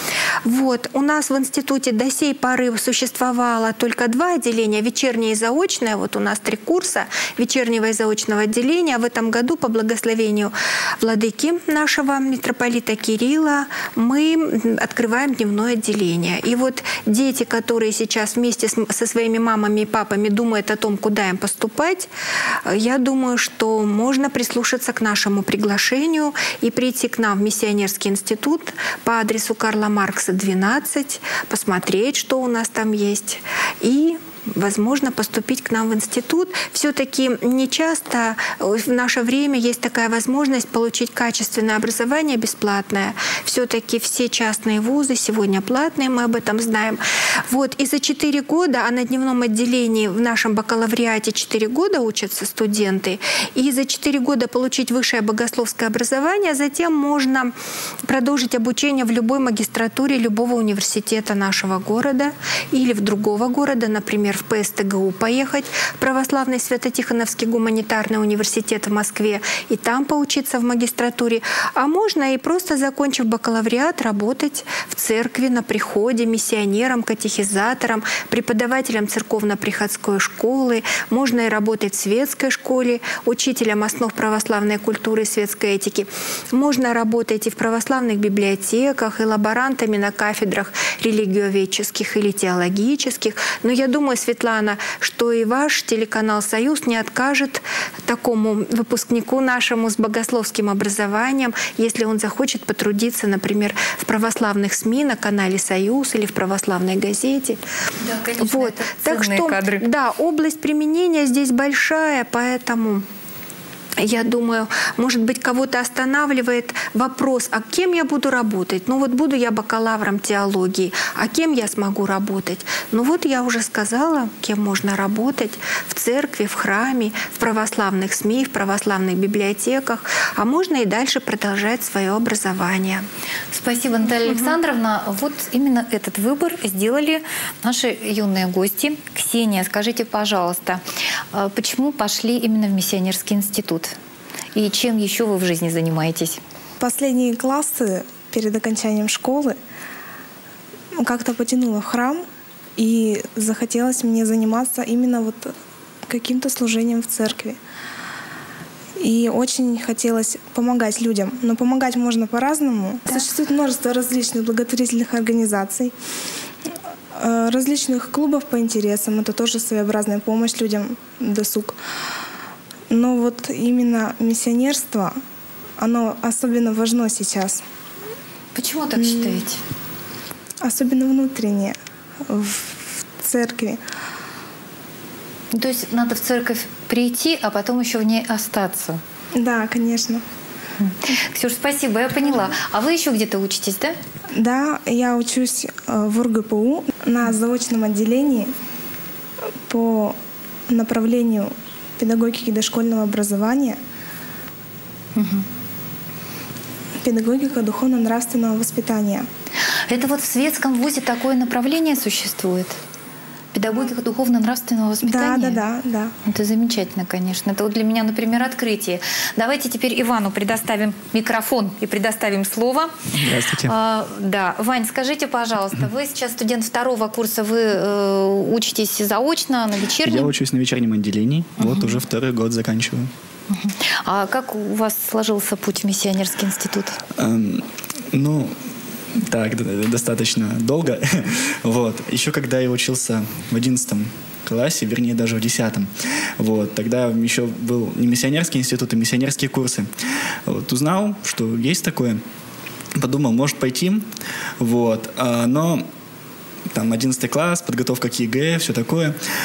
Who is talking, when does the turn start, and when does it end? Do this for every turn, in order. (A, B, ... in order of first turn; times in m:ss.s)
0:00.4-0:22.1 A
0:22.7-0:57.5 A
0:58.0-1:47.6 A
1:48.0-1:49.8 B
1:48.4-1:53.0 A
1:54.0-2:13.0 A
2:13.5-2:20.8 B
2:14.2-2:14.6 A
2:21.3-2:24.0 B
2:24.6-2:26.4 B
2:26.8-2:29.6 C
2:31.0-2:32.2 C
2:32.8-2:35.5 C
2:36.1-2:37.6 C
2:39.0-2:45.9 C
2:47.2-2:51.8 C
2:52.9-2:55.1 C
2:55.8-2:57.6 C
2:58.5-2:59.6 B
2:59.0-2:59.3 C
3:00.6-3:01.8 C
3:02.3-3:03.8 C
3:05.5-3:09.0 B
3:09.3-3:10.2 C
3:10.8-3:14.0 B
3:14.3-3:18.5 C
3:19.7-3:20.2 C
3:20.7-3:23.8 C
3:25.2-3:25.4 B
3:27.0-3:29.2 C
3:29.9-3:32.8 B
3:33.5-3:35.6 B
3:35.0-3:36.1 C
3:36.2-3:42.9 B
3:43.2-3:43.7 D
3:43.6-3:50.3 B
3:50.0-3:53.1 D
3:51.6-3:52.0 B
3:53.5-3:57.0 B
3:57.2-3:58.5 D
3:59.1-4:09.9 D
4:10.5-4:12.2 D
4:13.0-4:14.1 D
4:14.6-4:15.9 D
4:16.7-4:19.2 D